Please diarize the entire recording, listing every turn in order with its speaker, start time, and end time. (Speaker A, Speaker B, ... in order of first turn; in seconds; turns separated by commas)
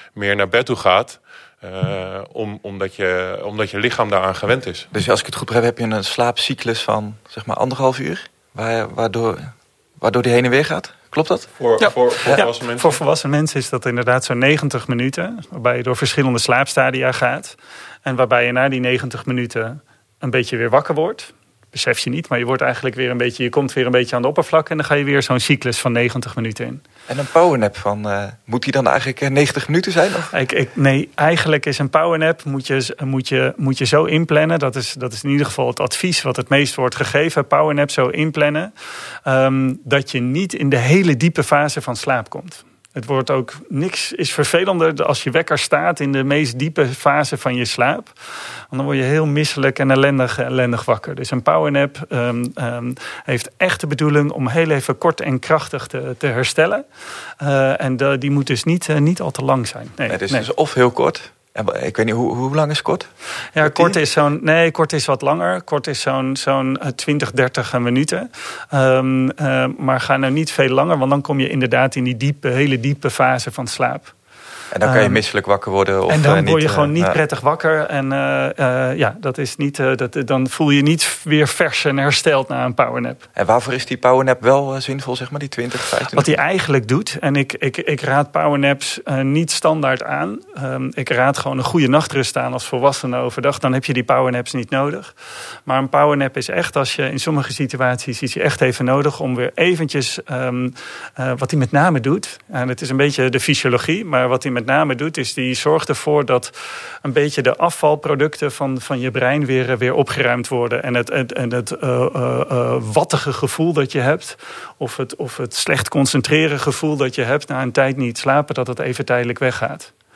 Speaker A: 0.2-4.9, Speaker B: 4.9-11.5, Speaker A: 11.6-13.0, Speaker C: 11.8-26.8, Speaker B: 27.1-30.3, Speaker C: 30.3-38.7, Speaker C: 39.3-48.1, Speaker C: 48.7-56.9, Speaker C: 57.4-60.5, Speaker B: 60.1-63.1, Speaker C: 63.5-74.1, Speaker B: 63.6-64.0, Speaker B: 74.7-77.2, Speaker C: 74.8-75.2, Speaker C: 76.1-83.2, Speaker B: 83.4-86.4, Speaker C: 86.1-95.1, Speaker C: 95.7-106.5, Speaker C: 107.0-119.9